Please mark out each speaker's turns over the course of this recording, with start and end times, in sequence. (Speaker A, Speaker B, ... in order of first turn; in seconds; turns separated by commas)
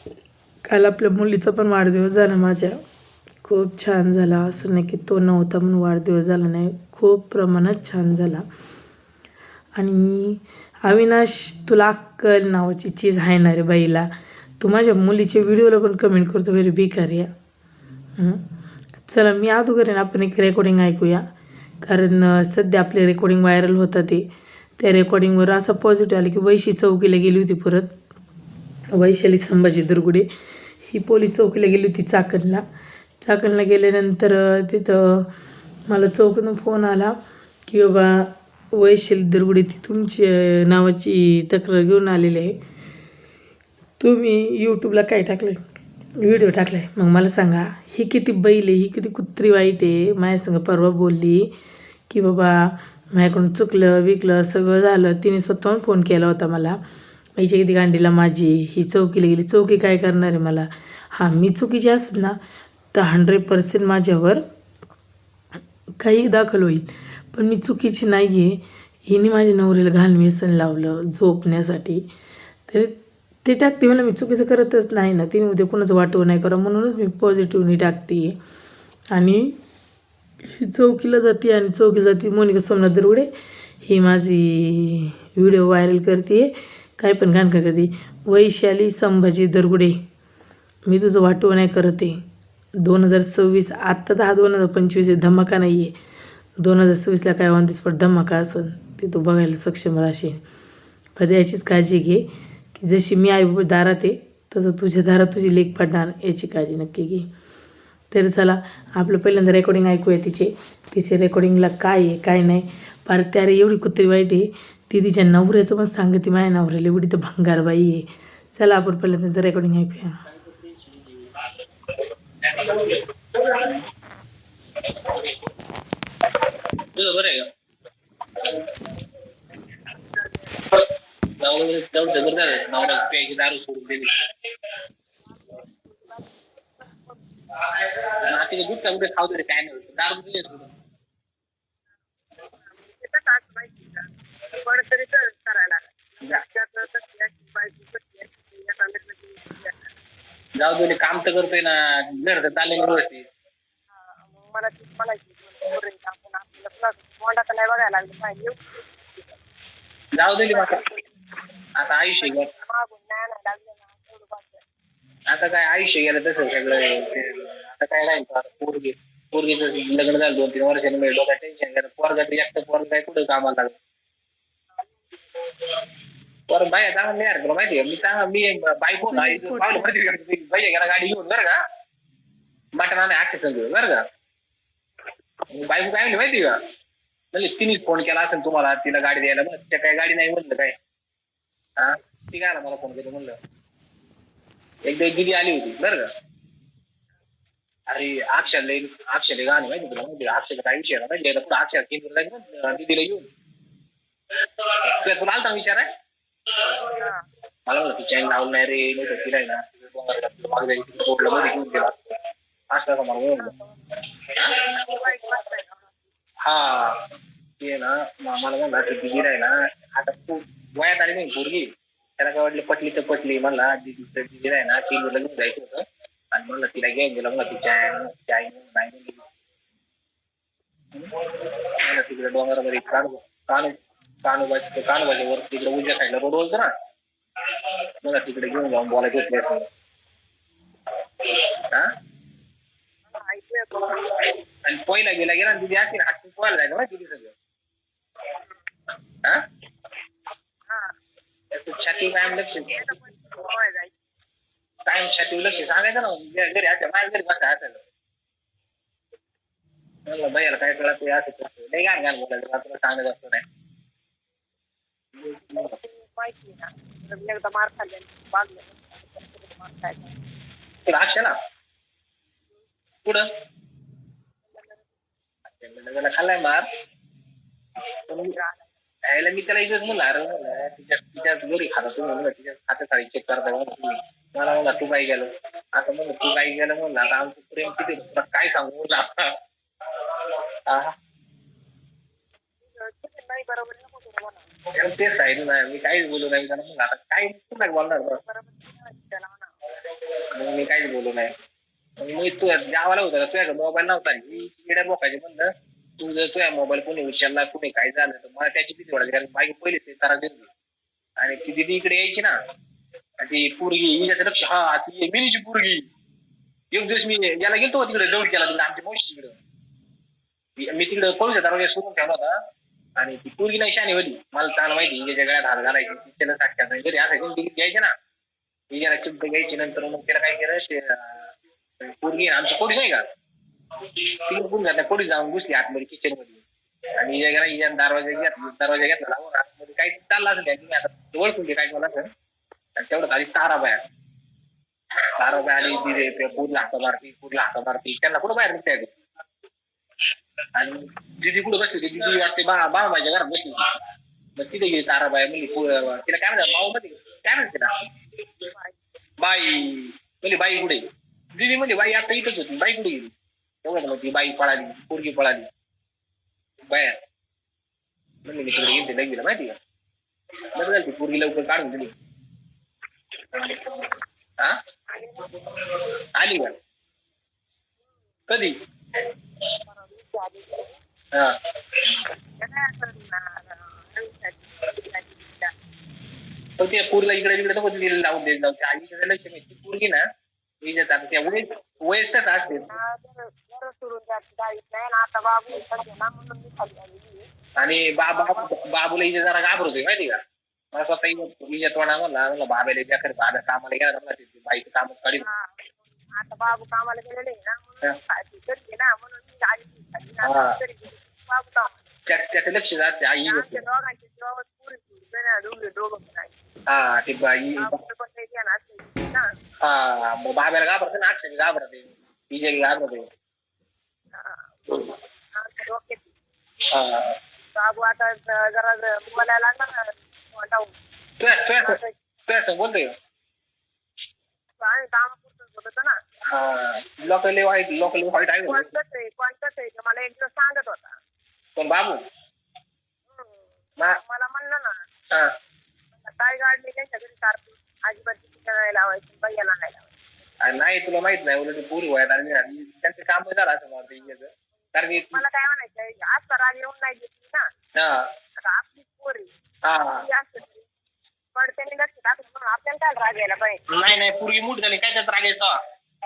Speaker A: 0.6-2.8, Speaker A: 3.4-8.4, Speaker A: 9.8-14.1, Speaker A: 14.6-17.3, Speaker A: 18.2-18.4, Speaker A: 19.1-21.3, Speaker A: 21.8-24.2, Speaker A: 24.8-27.9, Speaker A: 28.9-30.3, Speaker A: 30.8-32.6, Speaker A: 33.2-35.3, Speaker A: 35.9-37.1, Speaker A: 37.6-42.5, Speaker A: 44.0-45.6, Speaker A: 46.2-51.5, Speaker A: 52.1-56.8, Speaker A: 57.4-62.4, Speaker A: 62.9-64.4, Speaker A: 66.0-72.0, Speaker A: 72.7-78.3, Speaker A: 79.1-79.5, Speaker A: 80.4-83.3, Speaker A: 83.8-90.0, Speaker A: 90.9-92.2, Speaker A: 92.8-95.9, Speaker A: 96.6-100.4, Speaker A: 101.2-107.3, Speaker A: 108.1-120.2, Speaker B: 120.3-121.3, Speaker B: 122.4-123.8, Speaker B: 126.9-127.5, Speaker C: 130.1-130.6, Speaker B: 131.4-134.1, Speaker C: 135.3-137.2, Speaker B: 138.2-140.7, Speaker C: 142.4-149.9, Speaker B: 150.6-153.2, Speaker C: 154.2-159.4, Speaker B: 160.2-160.8, Speaker C: 160.5-161.1, Speaker B: 161.8-162.5, Speaker C: 162.0-164.6, Speaker B: 165.3-173.8, Speaker B: 176.5-181.6, Speaker A: 179.1-179.9, Speaker B: 182.8-184.0, Speaker B: 185.5-186.6, Speaker B: 187.3-190.7, Speaker B: 191.8-193.4, Speaker B: 194.9-196.1, Speaker B: 197.9-203.3, Speaker B: 204.6-205.8, Speaker B: 207.7-211.9, Speaker B: 212.7-213.5, Speaker C: 213.4-214.0, Speaker B: 214.3-214.8, Speaker C: 214.8-216.0, Speaker B: 216.4-217.0, Speaker B: 217.6-221.7, Speaker B: 222.2-229.3, Speaker B: 230.9-231.2, Speaker B: 231.8-236.7, Speaker B: 238.0-239.7, Speaker C: 243.1-244.2, Speaker B: 244.6-247.3, Speaker C: 250.7-250.9, Speaker B: 251.5-252.9, Speaker C: 252.2-253.9, Speaker B: 254.9-257.8, Speaker B: 260.1-263.4, Speaker B: 265.2-265.7, Speaker C: 265.4-270.2, Speaker B: 270.9-271.3, Speaker C: 274.4-274.9, Speaker B: 275.5-276.6, Speaker B: 278.1-278.3, Speaker C: 278.1-278.7, Speaker B: 279.1-289.3, Speaker B: 290.7-290.9, Speaker C: 292.6-294.5, Speaker B: 294.7-298.2, Speaker C: 298.2-299.5, Speaker B: 300.3-301.3, Speaker B: 302.0-310.5, Speaker B: 311.2-312.3, Speaker B: 313.2-315.8, Speaker B: 316.7-319.4, Speaker B: 320.6-322.3, Speaker B: 323.0-327.9, Speaker B: 328.7-333.0, Speaker B: 334.2-336.4, Speaker B: 337.0-342.1, Speaker B: 342.8-343.8, Speaker B: 345.2-348.9, Speaker B: 350.6-353.6, Speaker B: 354.4-357.7, Speaker B: 359.2-360.8, Speaker B: 361.4-363.1, Speaker B: 363.6-365.5, Speaker B: 366.7-367.0, Speaker B: 368.2-369.6, Speaker B: 370.6-371.9, Speaker C: 374.9-375.6, Speaker B: 376.2-376.6, Speaker B: 378.3-378.6, Speaker C: 379.6-380.8, Speaker C: 382.4-385.5, Speaker B: 386.6-390.0, Speaker B: 390.6-392.7, Speaker C: 392.7-397.3, Speaker B: 397.6-400.2, Speaker C: 398.1-398.5, Speaker B: 400.7-405.3, Speaker C: 405.2-411.8, Speaker B: 410.2-410.5, Speaker B: 412.1-413.6, Speaker C: 413.2-416.4, Speaker B: 416.7-417.8, Speaker C: 417.6-419.2, Speaker B: 419.6-423.1, Speaker C: 424.1-426.1, Speaker B: 426.7-427.1, Speaker C: 427.5-430.7, Speaker B: 431.2-432.9, Speaker C: 431.6-431.9, Speaker C: 434.6-435.9, Speaker B: 436.3-438.7, Speaker C: 438.5-440.9, Speaker B: 441.6-442.0, Speaker C: 443.1-444.8, Speaker C: 446.0-449.9, Speaker B: 450.4-455.2, Speaker C: 455.1-457.4, Speaker B: 457.8-458.1, Speaker C: 458.4-459.3, Speaker B: 459.7-460.0, Speaker C: 459.9-460.7, Speaker C: 461.3-463.6, Speaker B: 463.7-465.5